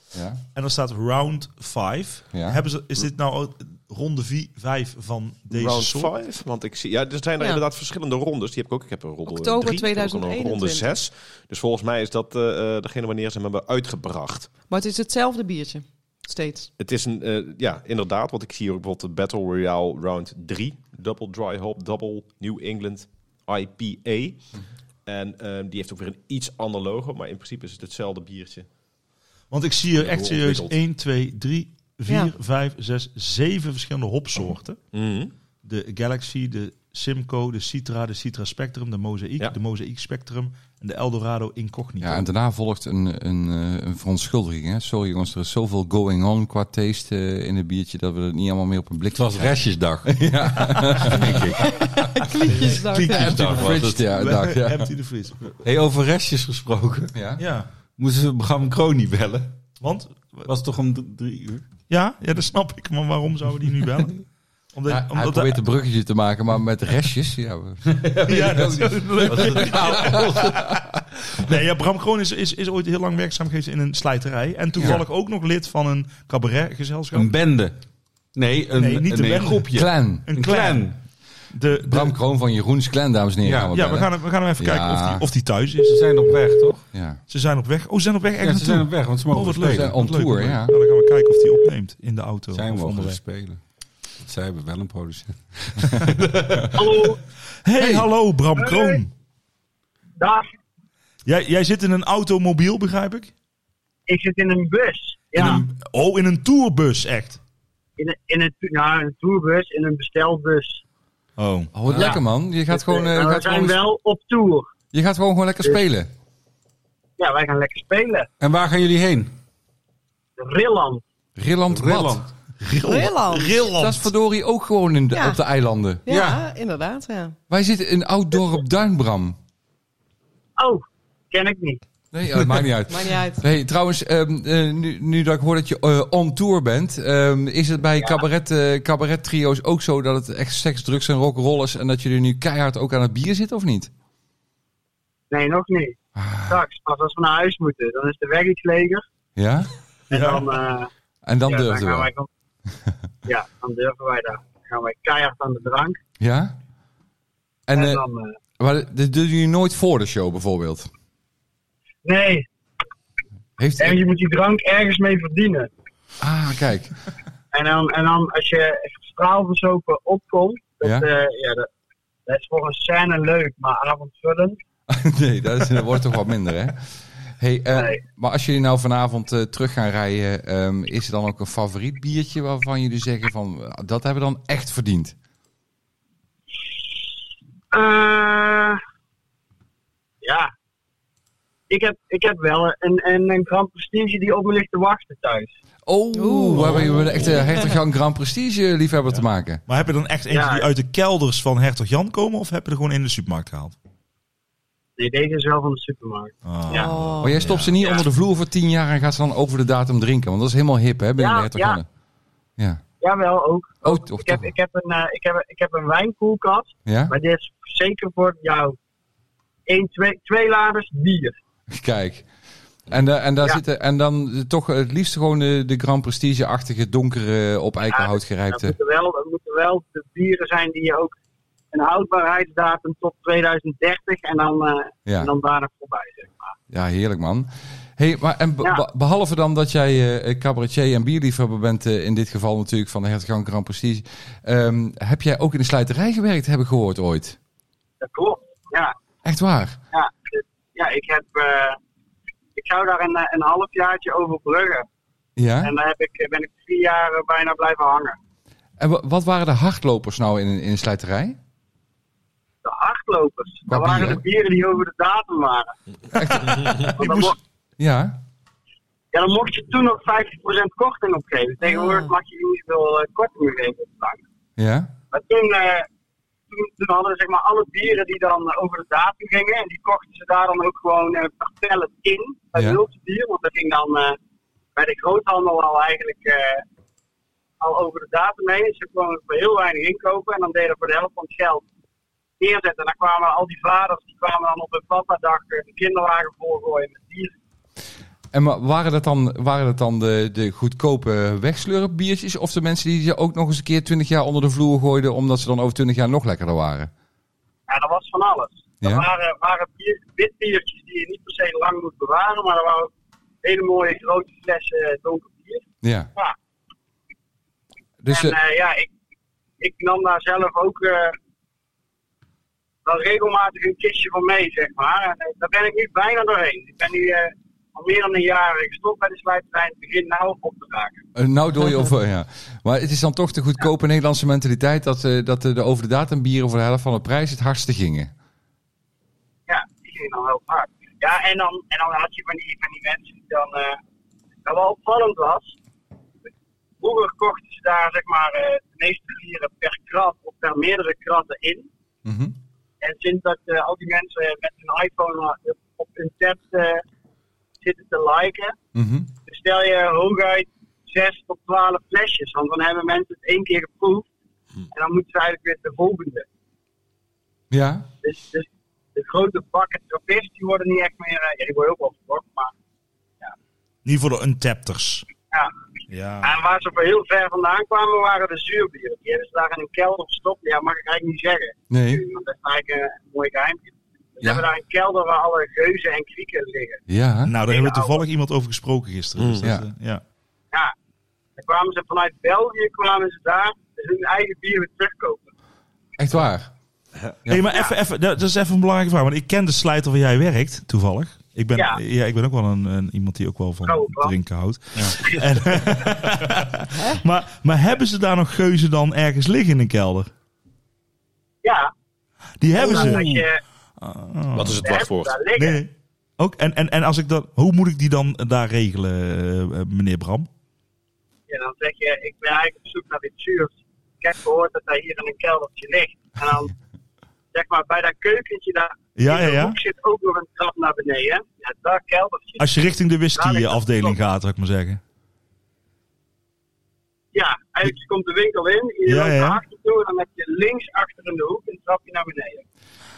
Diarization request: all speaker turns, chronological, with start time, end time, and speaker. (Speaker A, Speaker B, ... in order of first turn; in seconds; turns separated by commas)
Speaker A: 0.1-0.4, Speaker B: 0.5-6.1, Speaker A: 2.3-2.6, Speaker C: 5.5-14.5, Speaker D: 9.3-10.9, Speaker D: 14.7-16.7, Speaker C: 16.8-24.4, Speaker C: 25.1-28.7, Speaker B: 29.5-34.8, Speaker C: 29.9-30.8, Speaker C: 34.9-35.3, Speaker B: 35.6-42.2, Speaker A: 42.0-49.5, Speaker E: 49.1-50.3, Speaker A: 50.0-51.5, Speaker E: 51.0-51.6, Speaker D: 51.6-53.4, Speaker B: 52.5-55.5, Speaker E: 52.7-54.1, Speaker A: 53.0-54.9, Speaker E: 55.6-57.1, Speaker A: 57.1-57.4, Speaker B: 57.4-57.7, Speaker E: 58.0-59.6, Speaker B: 59.8-60.5, Speaker E: 60.5-61.7, Speaker B: 61.9-64.2, Speaker B: 64.7-65.6, Speaker A: 64.9-68.0, Speaker E: 67.9-70.8, Speaker B: 68.3-70.8, Speaker A: 69.3-70.1, Speaker B: 71.3-77.3, Speaker A: 74.8-75.0, Speaker E: 77.1-77.8, Speaker E: 78.3-81.0, Speaker B: 78.7-79.7, Speaker A: 79.7-80.3, Speaker B: 80.3-80.9, Speaker B: 81.5-82.1, Speaker A: 81.8-85.3, Speaker E: 83.4-83.8, Speaker B: 83.7-86.0, Speaker E: 85.8-86.8, Speaker A: 86.9-87.2, Speaker B: 87.3-93.2, Speaker E: 88.4-90.0, Speaker A: 89.7-90.7, Speaker E: 92.5-93.6, Speaker E: 94.2-96.7, Speaker F: 96.7-97.2, Speaker B: 97.6-99.1, Speaker A: 97.8-98.1, Speaker F: 98.5-99.0, Speaker F: 100.2-100.5, Speaker B: 101.2-103.3, Speaker F: 104.1-105.6, Speaker B: 105.3-107.4, Speaker F: 108.0-110.8, Speaker B: 111.4-111.7, Speaker A: 111.7-113.8, Speaker F: 112.0-114.7, Speaker A: 114.9-116.1, Speaker F: 117.2-118.3, Speaker E: 118.4-119.3, Speaker F: 120.4-121.0, Speaker A: 121.4-122.3, Speaker E: 121.7-122.7, Speaker B: 122.7-124.0, Speaker D: 122.8-123.7, Speaker A: 123.7-126.0, Speaker D: 125.1-125.4, Speaker D: 126.0-127.4, Speaker E: 126.1-126.4, Speaker A: 127.5-129.4, Speaker F: 130.6-131.8, Speaker A: 132.1-143.9, Speaker D: 132.9-133.4, Speaker F: 145.3-149.0, Speaker A: 146.2-146.6, Speaker A: 149.4-149.7, Speaker F: 150.1-150.9, Speaker B: 150.1-150.5, Speaker A: 151.2-152.1, Speaker F: 151.4-152.3, Speaker F: 153.2-156.0, Speaker A: 156.2-156.6, Speaker A: 157.7-158.0, Speaker F: 157.7-158.4, Speaker A: 158.6-160.9, Speaker F: 162.0-162.4, Speaker A: 163.6-164.0, Speaker F: 163.8-165.7, Speaker A: 166.2-166.9, Speaker F: 167.5-171.7, Speaker F: 172.3-174.6, Speaker A: 174.9-176.8, Speaker A: 177.4-185.1, Speaker F: 177.7-178.0, Speaker F: 187.7-188.8, Speaker F: 190.2-190.5, Speaker F: 191.7-195.6, Speaker A: 195.9-199.6, Speaker D: 196.1-197.7, Speaker B: 196.6-197.2, Speaker B: 199.7-203.7, Speaker F: 200.3-200.7, Speaker F: 205.0-206.9, Speaker B: 206.4-207.8, Speaker D: 206.7-207.4, Speaker A: 207.2-211.9, Speaker F: 207.7-208.1, Speaker F: 211.2-211.8, Speaker A: 212.6-212.8, Speaker F: 213.0-218.8, Speaker A: 213.8-214.5, Speaker A: 216.9-217.1, Speaker F: 219.7-221.4, Speaker A: 221.7-222.3, Speaker A: 222.9-228.7, Speaker F: 227.9-231.2, Speaker F: 231.7-236.6, Speaker A: 235.1-235.3, Speaker A: 236.7-247.4, Speaker F: 248.0-248.9, Speaker A: 249.2-249.8, Speaker F: 249.9-251.8, Speaker F: 252.6-254.8, Speaker A: 255.4-255.7, Speaker F: 255.6-258.1, Speaker A: 258.8-261.4, Speaker F: 262.6-265.7, Speaker A: 263.7-264.2, Speaker A: 266.1-268.2, Speaker C: 266.4-266.9, Speaker F: 266.9-267.4, Speaker F: 269.1-274.2, Speaker D: 271.6-272.1, Speaker A: 274.6-274.9, Speaker F: 275.1-275.9, Speaker F: 276.5-284.2, Speaker F: 284.8-286.6, Speaker F: 287.6-291.6, Speaker F: 292.4-297.4, Speaker A: 298.3-306.9, Speaker F: 307.7-312.9, Speaker A: 308.8-309.1, Speaker F: 313.4-315.6, Speaker A: 315.8-316.1, Speaker A: 318.0-318.4, Speaker F: 318.1-318.9, Speaker F: 319.6-321.1, Speaker F: 322.8-331.0, Speaker A: 331.1-338.1, Speaker F: 339.5-343.8, Speaker F: 344.4-345.6, Speaker F: 346.8-351.7, Speaker A: 352.1-352.3, Speaker F: 352.8-356.8, Speaker F: 357.6-358.6, Speaker A: 358.7-359.1, Speaker F: 359.3-364.1, Speaker F: 364.7-366.3, Speaker A: 367.5-367.9, Speaker F: 368.0-372.5, Speaker B: 373.8-375.1, Speaker B: 375.9-376.3, Speaker F: 376.2-386.8, Speaker A: 381.7-382.0, Speaker A: 386.9-387.4, Speaker B: 387.2-390.0, Speaker F: 387.5-388.0, Speaker C: 389.2-389.4, Speaker F: 391.4-395.3, Speaker A: 396.0-396.5, Speaker C: 397.0-397.2, Speaker B: 397.3-410.1, Speaker F: 397.5-397.7, Speaker F: 403.6-404.1, Speaker F: 411.4-411.7, Speaker B: 412.4-413.3, Speaker F: 412.6-413.4, Speaker B: 413.8-414.6, Speaker C: 414.3-415.2, Speaker F: 414.6-415.6, Speaker B: 415.3-420.3, Speaker F: 421.3-426.5, Speaker F: 427.3-432.6, Speaker B: 428.9-429.6, Speaker B: 432.4-434.8, Speaker F: 433.1-433.9, Speaker F: 437.1-442.4, Speaker B: 438.9-439.4